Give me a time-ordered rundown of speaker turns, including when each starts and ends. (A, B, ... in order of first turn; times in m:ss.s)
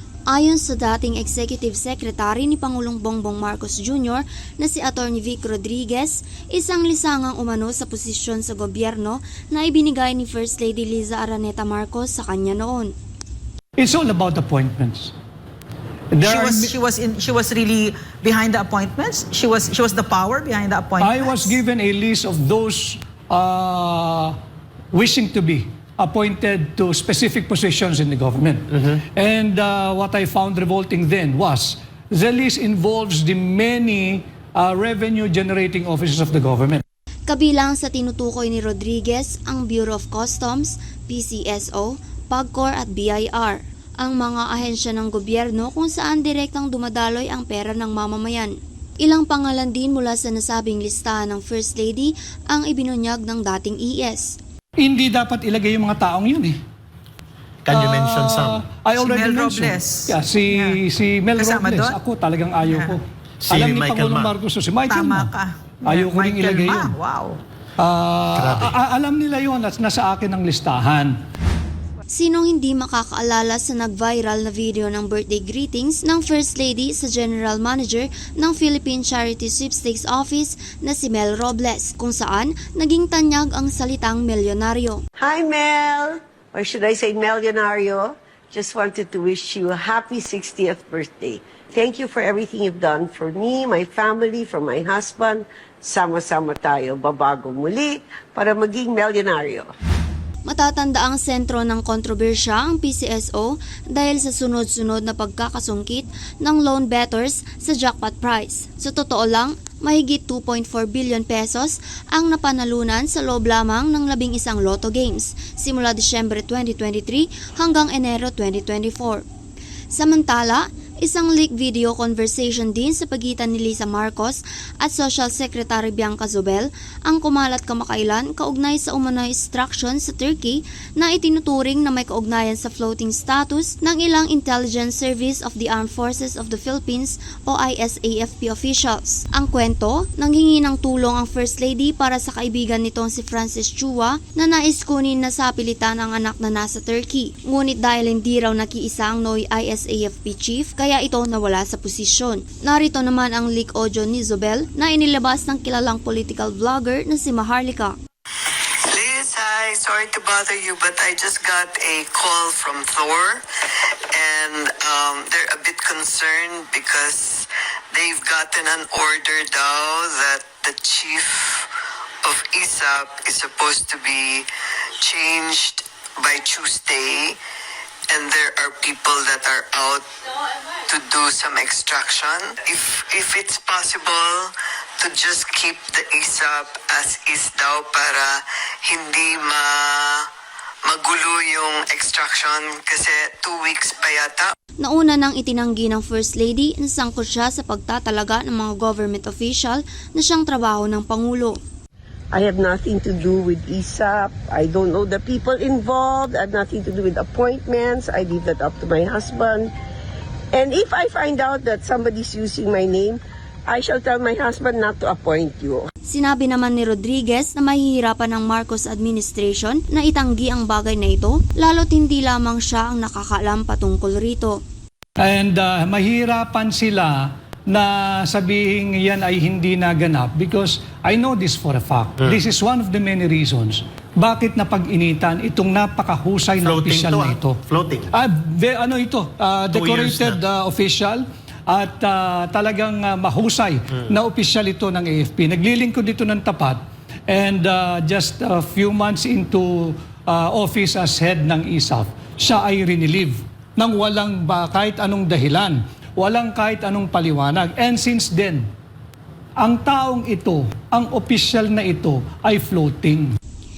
0:00.3-0:12.9 A
0:13.8-0:15.1 B
0:16.1-0:16.7 B
0:16.2-0:21.6 C
0:21.0-0:24.4 B
0:24.9-0:36.8 B
0:37.3-0:54.4 A
0:54.8-0:56.6 B
0:57.6-0:58.7 D
0:57.7-1:05.3 B
0:59.0-1:00.8 C
1:01.4-1:02.0 C
1:02.6-1:03.0 C
1:03.4-1:04.4 D
1:04.9-1:07.4 C
1:05.8-1:07.0 B
1:07.8-1:11.1 B
1:08.3-1:08.8 D
1:12.1-1:25.0 A
1:25.2-1:39.7 E
1:40.5-1:59.2 A
1:59.9-2:38.0 A
2:38.5-2:43.4 F
2:44.1-2:51.7 F
2:52.2-2:54.5 F
2:55.0-2:57.4 F
2:58.1-3:00.0 F
3:00.9-3:10.3 F
3:10.8-3:14.5 F
3:14.8-3:21.6 A
3:22.3-3:29.7 E
3:30.5-3:35.9 E
3:36.1-3:44.6 A
3:45.2-3:57.6 B
3:56.6-3:58.1 D
3:58.1-4:18.6 B
3:59.7-4:00.4 D
4:19.6-4:23.4 B